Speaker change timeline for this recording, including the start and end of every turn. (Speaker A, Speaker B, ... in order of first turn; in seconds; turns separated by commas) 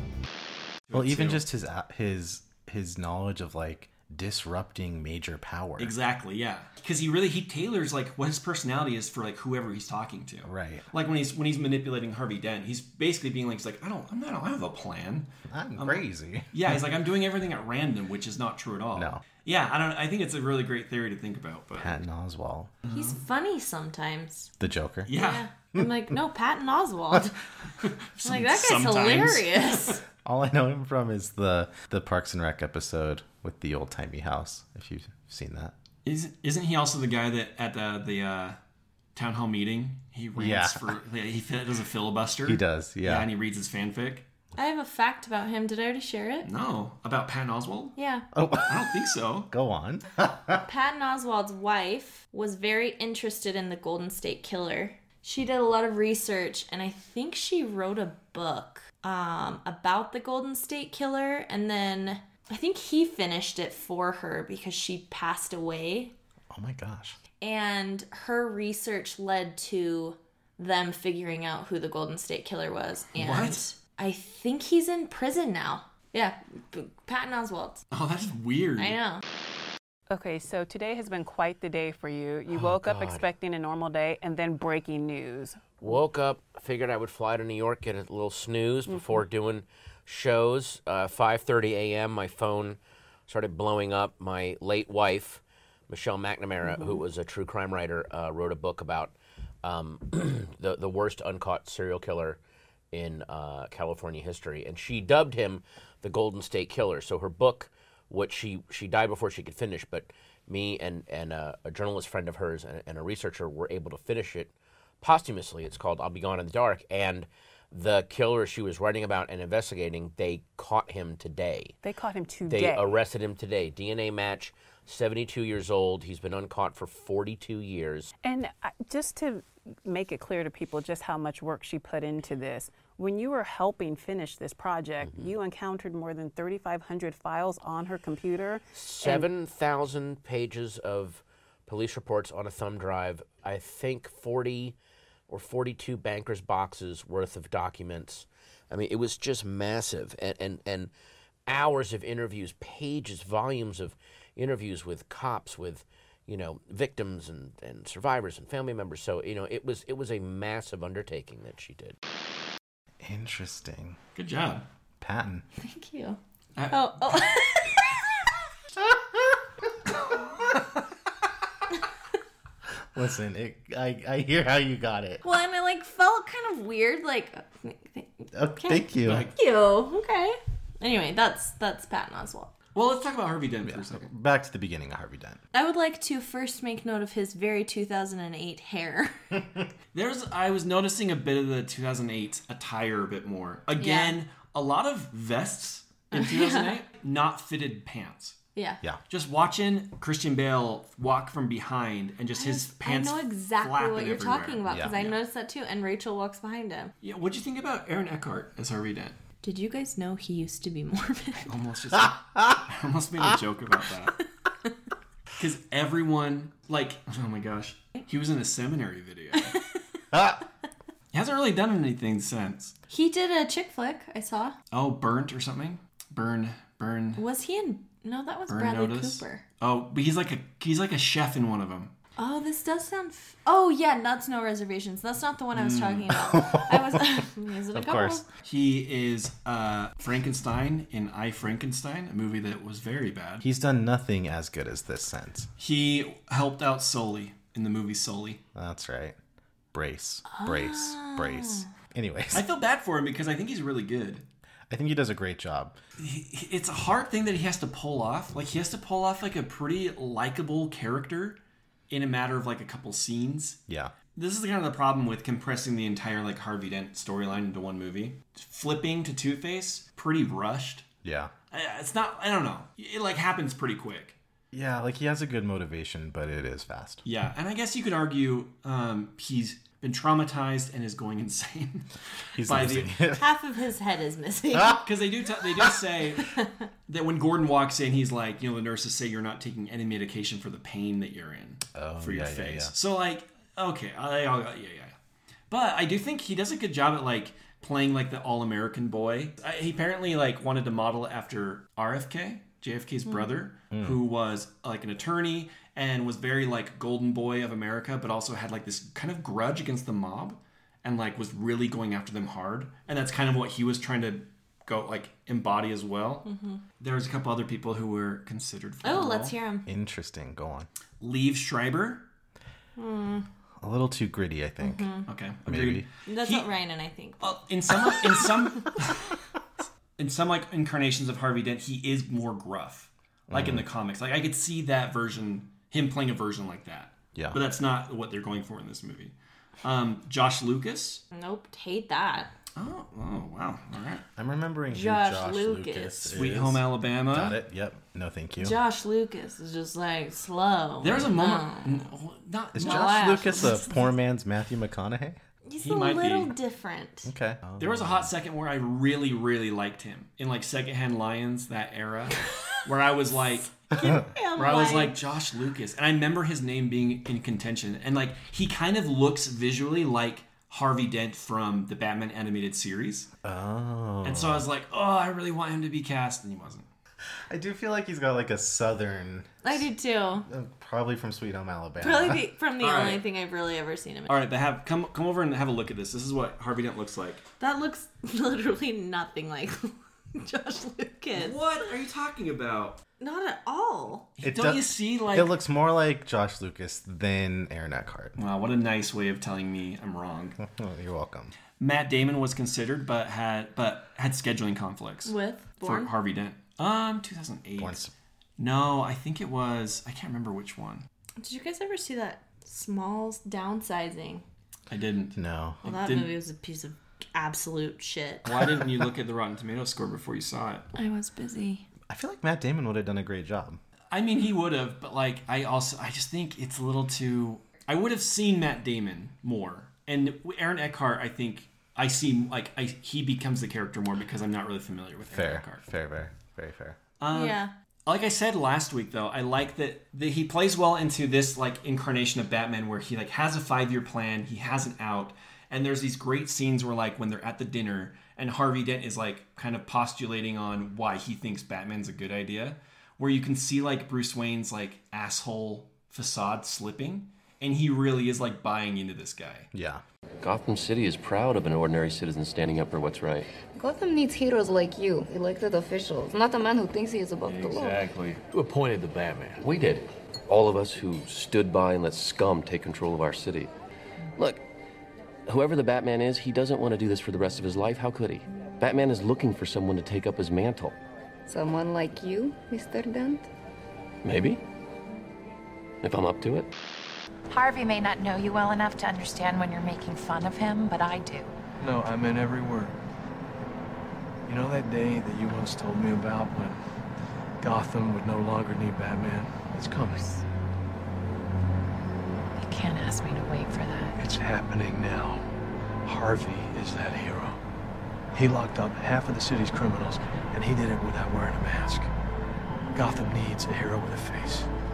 Speaker A: 0.9-1.4, Speaker B: 0.9-5.9, Speaker A: 5.8-22.0, Speaker B: 10.4-10.9, Speaker B: 15.5-16.5, Speaker B: 18.9-19.2, Speaker B: 21.8-22.7, Speaker A: 22.9-23.2, Speaker C: 22.9-24.5, Speaker B: 24.6-25.1, Speaker A: 25.1-25.5, Speaker C: 25.1-27.4, Speaker A: 27.8-30.0, Speaker C: 28.2-30.0, Speaker B: 30.2-35.8, Speaker A: 36.0-38.6, Speaker A: 39.1-44.3, Speaker B: 40.4-41.0, Speaker B: 42.5-43.3, Speaker C: 44.5-46.5, Speaker A: 46.4-48.0, Speaker C: 48.0-48.3, Speaker B: 48.4-49.0, Speaker A: 48.6-49.5, Speaker B: 49.5-50.6, Speaker C: 50.6-66.1, Speaker B: 66.5-67.2, Speaker C: 67.4-77.8, Speaker A: 73.2-73.6, Speaker A: 77.9-79.0, Speaker C: 78.8-79.2, Speaker D: 80.1-85.7, Speaker E: 82.5-83.2, Speaker E: 85.8-102.4, Speaker D: 88.9-89.3, Speaker D: 96.6-97.0, Speaker E: 102.9-121.8, Speaker D: 121.8-123.0, Speaker E: 122.5-128.1, Speaker D: 128.2-139.3, Speaker E: 135.0-135.3, Speaker E: 138.7-144.8, Speaker E: 145.3-150.9, Speaker E: 151.5-161.9, Speaker B: 163.0-164.0, Speaker A: 164.2-164.7, Speaker B: 165.0-165.4, Speaker C: 165.6-166.2, Speaker A: 166.6-167.4, Speaker C: 166.7-168.2, Speaker B: 172.9-175.2, Speaker C: 175.2-182.5, Speaker B: 178.3-179.3, Speaker A: 179.0-179.3, Speaker A: 182.8-184.1, Speaker B: 183.7-185.4, Speaker C: 185.5-189.3, Speaker A: 189.9-198.4, Speaker C: 193.8-194.2, Speaker C: 196.2-196.7, Speaker C: 198.6-198.8, Speaker A: 199.1-205.1, Speaker C: 202.4-206.9, Speaker B: 204.7-205.1, Speaker A: 207.0-209.2, Speaker C: 209.4-211.4, Speaker A: 211.4-214.2, Speaker A: 215.4-219.6, Speaker A: 221.1-222.8, Speaker C: 222.9-224.6, Speaker A: 224.7-227.2, Speaker C: 227.2-229.4, Speaker A: 228.5-231.9, Speaker C: 232.2-238.2, Speaker A: 235.5-236.2, Speaker B: 236.3-237.2, Speaker B: 237.7-238.2, Speaker A: 238.4-243.4, Speaker B: 243.4-245.5, Speaker A: 245.6-248.4, Speaker B: 248.6-249.2, Speaker B: 249.7-252.5, Speaker C: 250.3-251.7, Speaker A: 252.3-254.2, Speaker B: 254.7-255.8, Speaker A: 256.0-261.4, Speaker A: 261.9-263.6, Speaker B: 263.7-263.9, Speaker A: 264.1-270.9, Speaker B: 271.0-271.3, Speaker A: 271.5-274.2, Speaker B: 274.5-277.0, Speaker A: 277.1-282.9, Speaker B: 282.4-283.2, Speaker C: 283.2-284.8, Speaker A: 284.8-286.4, Speaker A: 286.9-295.0, Speaker B: 291.8-292.7, Speaker A: 295.5-316.3, Speaker B: 303.7-304.0, Speaker C: 316.2-316.6, Speaker A: 316.8-319.4, Speaker C: 318.8-319.7, Speaker B: 319.7-320.7, Speaker A: 321.0-322.1, Speaker C: 322.8-323.3, Speaker B: 323.6-324.9, Speaker C: 324.6-325.1, Speaker A: 325.1-326.5, Speaker B: 325.5-325.9, Speaker C: 326.1-327.3, Speaker A: 327.2-329.1, Speaker C: 327.9-328.2, Speaker A: 330.0-341.0, Speaker B: 333.3-333.7, Speaker B: 337.1-337.4, Speaker C: 341.1-342.3, Speaker A: 342.6-344.0, Speaker B: 344.2-348.6, Speaker C: 344.7-346.2, Speaker A: 346.1-347.4, Speaker C: 348.4-351.9, Speaker A: 350.8-353.6, Speaker B: 352.5-355.2, Speaker C: 352.6-353.9, Speaker C: 355.4-357.1, Speaker A: 355.6-356.3, Speaker B: 357.1-358.1, Speaker A: 357.6-363.6, Speaker C: 363.6-365.0, Speaker A: 364.4-373.1, Speaker B: 373.2-374.5, Speaker A: 374.0-376.7, Speaker B: 377.3-379.6, Speaker C: 379.4-380.3, Speaker B: 380.3-382.2, Speaker C: 381.8-384.2, Speaker A: 382.6-383.0, Speaker A: 384.1-387.2, Speaker C: 387.4-391.4, Speaker A: 391.1-392.8, Speaker C: 393.0-394.1, Speaker A: 394.2-395.3, Speaker B: 394.2-398.2, Speaker A: 398.2-400.4, Speaker B: 400.4-401.3, Speaker A: 401.6-407.8, Speaker C: 405.1-405.9, Speaker B: 407.6-407.9, Speaker A: 408.4-410.9, Speaker C: 411.2-414.2, Speaker A: 414.7-416.1, Speaker B: 415.1-415.6, Speaker C: 415.6-418.3, Speaker A: 418.2-420.7, Speaker C: 420.7-421.6, Speaker B: 421.9-423.6, Speaker A: 423.9-435.6, Speaker B: 435.1-436.8, Speaker A: 437.0-459.5, Speaker C: 437.1-437.5, Speaker B: 459.5-459.8, Speaker F: 460.2-463.3, Speaker G: 463.6-467.8, Speaker F: 467.3-473.5, Speaker F: 474.2-474.4, Speaker F: 475.3-480.8, Speaker G: 481.3-483.3, Speaker F: 484.0-484.4, Speaker F: 485.8-486.5, Speaker H: 487.3-491.3, Speaker I: 491.6-492.8, Speaker I: 494.3-496.6, Speaker I: 497.4-500.2, Speaker H: 502.4-504.0, Speaker I: 504.0-505.2, Speaker I: 505.9-507.4, Speaker I: 508.1-511.9, Speaker I: 512.7-514.5